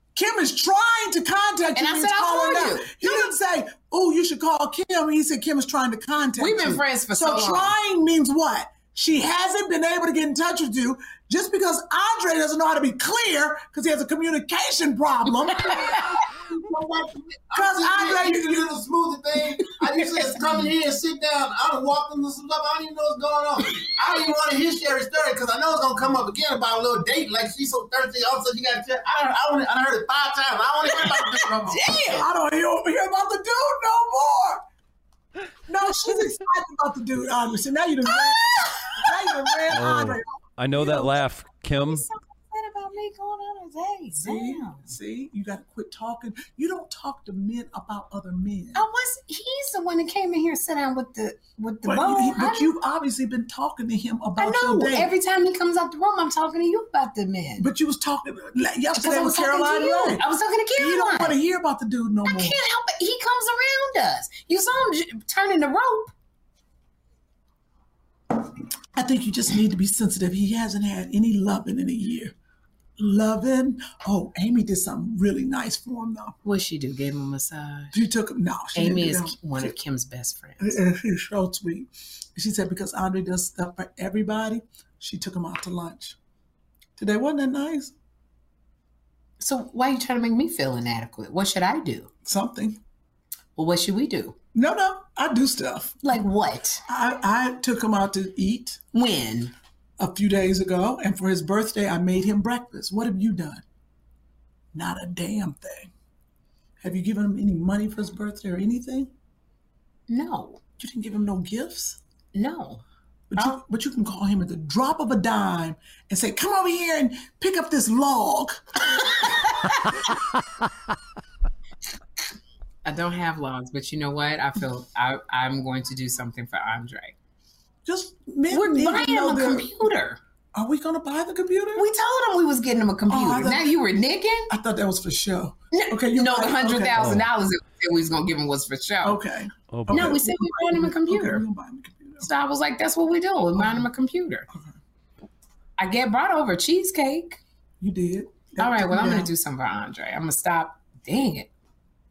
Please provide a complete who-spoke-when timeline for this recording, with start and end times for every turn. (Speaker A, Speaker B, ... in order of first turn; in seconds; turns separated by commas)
Speaker A: 0.1-17.0, Speaker B: 1.8-3.3, Speaker B: 6.4-7.7, Speaker B: 15.7-16.1, Speaker C: 17.5-31.9, Speaker A: 17.5-18.7, Speaker B: 30.9-32.2, Speaker A: 32.1-34.6, Speaker A: 35.7-40.2, Speaker B: 38.1-39.6, Speaker D: 39.7-42.0, Speaker A: 40.8-41.1, Speaker B: 41.9-44.8, Speaker A: 44.1-48.8, Speaker B: 48.7-52.7, Speaker A: 51.8-55.1, Speaker B: 54.4-57.7, Speaker A: 57.6-60.2, Speaker B: 58.9-61.4, Speaker A: 60.8-62.6, Speaker B: 62.2-66.1, Speaker A: 68.9-72.3, Speaker A: 73.0-76.3, Speaker B: 76.4-78.0, Speaker A: 77.9-79.7, Speaker B: 78.7-80.8, Speaker A: 80.6-86.2, Speaker A: 87.0-87.9, Speaker B: 89.4-92.1, Speaker A: 92.2-92.8, Speaker B: 93.5-94.3, Speaker A: 94.5-96.0, Speaker B: 96.0-96.8, Speaker A: 96.9-98.8, Speaker B: 98.9-99.5, Speaker A: 100.0-103.6, Speaker A: 104.7-105.9, Speaker A: 106.8-109.1, Speaker B: 110.1-110.6, Speaker A: 110.8-112.0, Speaker B: 112.3-112.8, Speaker A: 113.3-119.3, Speaker B: 122.8-127.1, Speaker A: 127.8-129.7, Speaker B: 128.5-130.2, Speaker A: 130.5-131.9, Speaker B: 131.7-134.5, Speaker A: 133.1-133.7, Speaker A: 134.5-137.2, Speaker B: 135.7-139.2, Speaker D: 137.0-137.2, Speaker A: 139.0-142.3, Speaker D: 139.7-140.2, Speaker B: 139.9-141.4, Speaker B: 142.2-144.5, Speaker B: 145.8-147.4, Speaker A: 147.8-149.3, Speaker B: 148.6-151.5